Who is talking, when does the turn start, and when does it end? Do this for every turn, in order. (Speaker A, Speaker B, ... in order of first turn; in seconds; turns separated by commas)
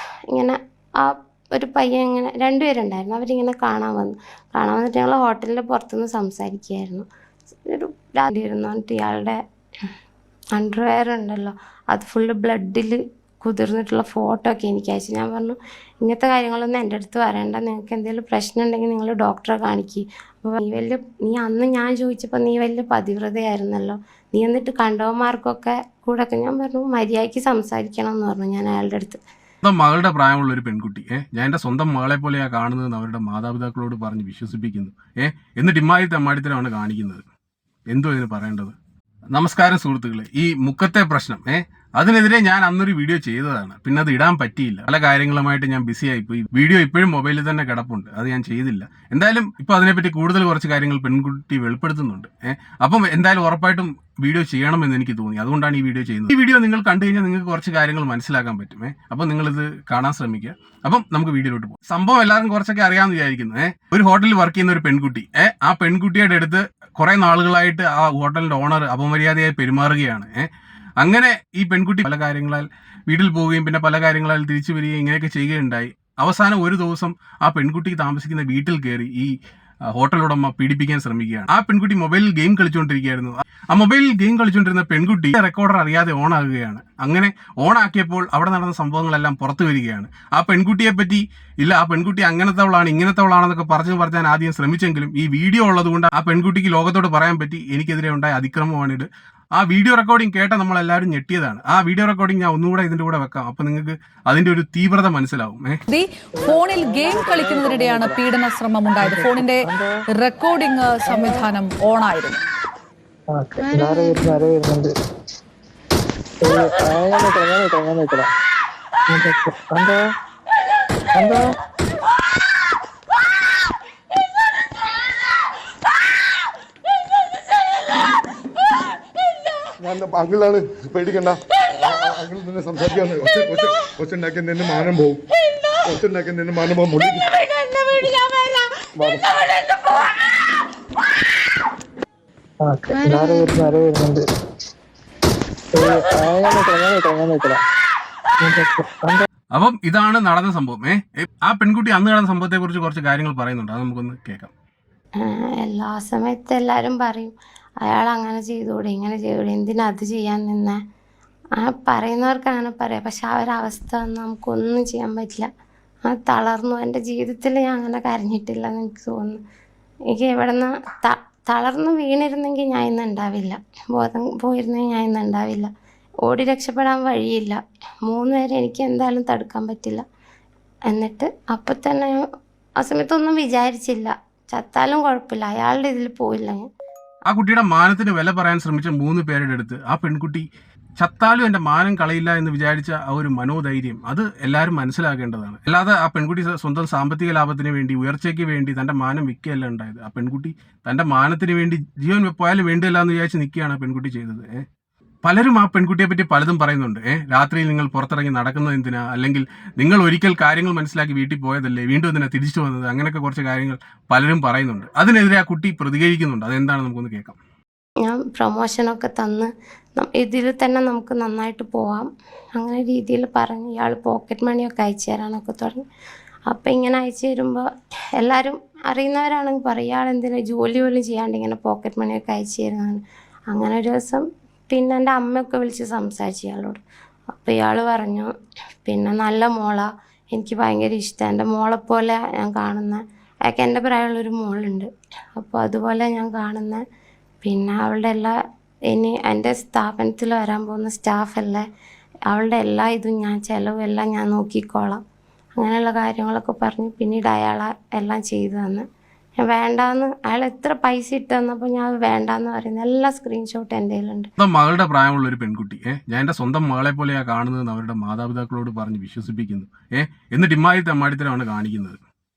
Speaker A: 0.3-7.1, Speaker A: 7.7-9.4, Speaker A: 10.5-29.2, Speaker B: 29.6-37.2, Speaker B: 37.9-38.7, Speaker B: 39.3-70.4, Speaker B: 71.0-79.3, Speaker B: 79.9-105.8, Speaker C: 105.9-112.4, Speaker D: 106.3-108.2, Speaker D: 109.0-109.9, Speaker D: 111.1-111.4, Speaker D: 113.3-114.9, Speaker D: 116.4-118.3, Speaker D: 119.1-120.0, Speaker D: 121.1-121.4, Speaker E: 129.8-135.2, Speaker E: 135.9-137.3, Speaker E: 139.0-139.3, Speaker D: 142.6-144.2, Speaker D: 145.7-147.6, Speaker D: 148.4-149.2, Speaker B: 149.5-154.5, Speaker A: 155.2-160.8, Speaker A: 161.6-165.5, Speaker A: 166.0-169.4, Speaker A: 170.1-175.7, Speaker A: 176.2-180.0, Speaker A: 180.9-182.2, Speaker A: 182.8-186.6, Speaker B: 187.3-190.4, Speaker B: 191.0-204.6, Speaker B: 205.2-217.4, Speaker A: 218.0-225.8, Speaker A: 226.5-227.7, Speaker A: 228.2-236.8, Speaker A: 237.3-238.3, Speaker A: 238.8-246.8, Speaker A: 247.4-248.3, Speaker A: 248.9-251.6, Speaker A: 252.3-255.0, Speaker A: 255.6-258.8, Speaker A: 259.4-264.3, Speaker B: 264.4-272.0